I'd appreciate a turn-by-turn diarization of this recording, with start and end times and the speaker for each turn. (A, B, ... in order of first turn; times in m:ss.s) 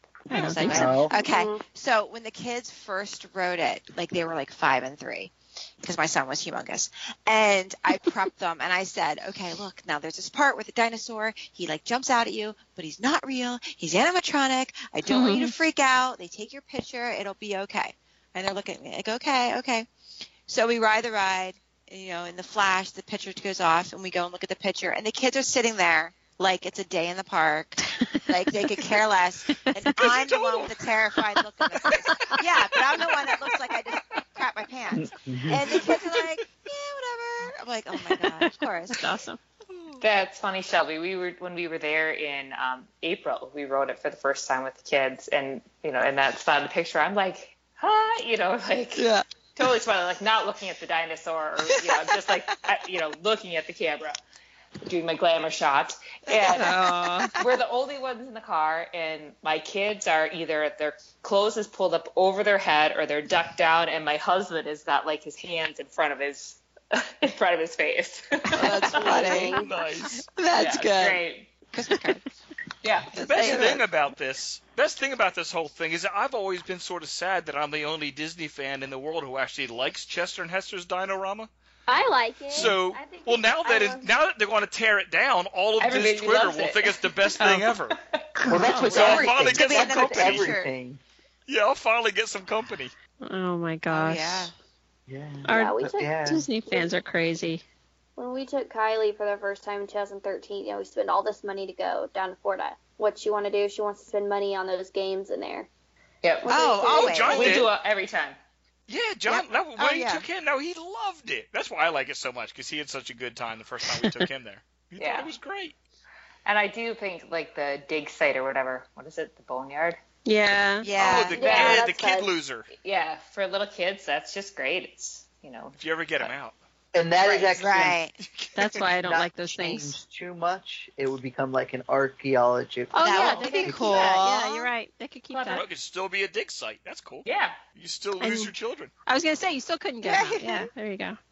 0:00.3-0:01.0 A
0:00.3-0:19.9 B
0:00.3-0:00.8 C
0:00.7-0:01.1 D
0:01.0-0:01.6 E
0:15.1-0:15.5 A
0:20.5-0:39.1 B
0:28.0-0:28.3 A
0:29.5-0:29.9 A
0:30.0-0:30.7 C
0:31.8-0:32.4 A
0:34.9-0:35.8 D
0:38.0-0:39.4 A
0:39.7-0:40.0 C
0:40.0-0:49.0 F
0:49.6-0:54.2 F
0:54.8-0:56.8 F
0:56.3-0:57.4 B
0:56.5-0:57.4 A
0:57.4-1:09.4 F
1:08.5-1:09.6 B
1:08.7-1:09.7 E
1:09.2-1:10.3 C
1:10.2-1:12.3 B
1:10.6-1:11.5 F
1:12.8-1:13.7 F
1:13.2-1:13.8 B
1:13.2-1:21.5 C
1:21.9-1:24.1 E
1:22.5-1:28.0 C
1:25.8-1:28.2 F
1:28.4-1:28.9 A
1:28.5-1:31.0 D
1:28.6-1:30.5 C
1:28.6-1:30.7 B
1:31.5-1:32.9 C
1:33.2-1:34.5 A
1:33.9-1:34.5 B
1:35.1-1:36.5 D
1:35.5-1:37.6 A
1:35.5-1:36.9 E
1:38.2-1:45.7 E
1:46.2-1:48.4 F
1:46.4-1:47.3 E
1:46.5-1:47.7 B
1:47.0-1:47.7 C
1:48.9-1:55.8 C
1:49.3-1:50.3 B
1:53.9-1:54.2 A
1:55.0-1:55.3 F
1:56.4-2:00.0 F
2:00.3-2:00.9 A
2:00.8-2:01.6 B
2:01.0-2:02.7 C
2:01.3-2:02.3 E
2:01.4-2:01.8 F
2:02.8-2:06.3 F
2:05.7-2:06.6 C
2:06.9-2:08.0 D
2:07.2-2:07.6 F
2:07.6-2:08.2 B
2:08.2-2:08.8 C
2:08.6-2:10.0 A
2:08.9-2:14.2 D
2:12.9-2:15.6 A
2:13.0-2:14.7 B
2:15.3-2:15.7 F
2:15.5-2:18.9 C
2:17.2-2:17.6 F
2:18.2-2:18.5 A
2:19.1-2:21.2 A
2:20.0-2:20.7 B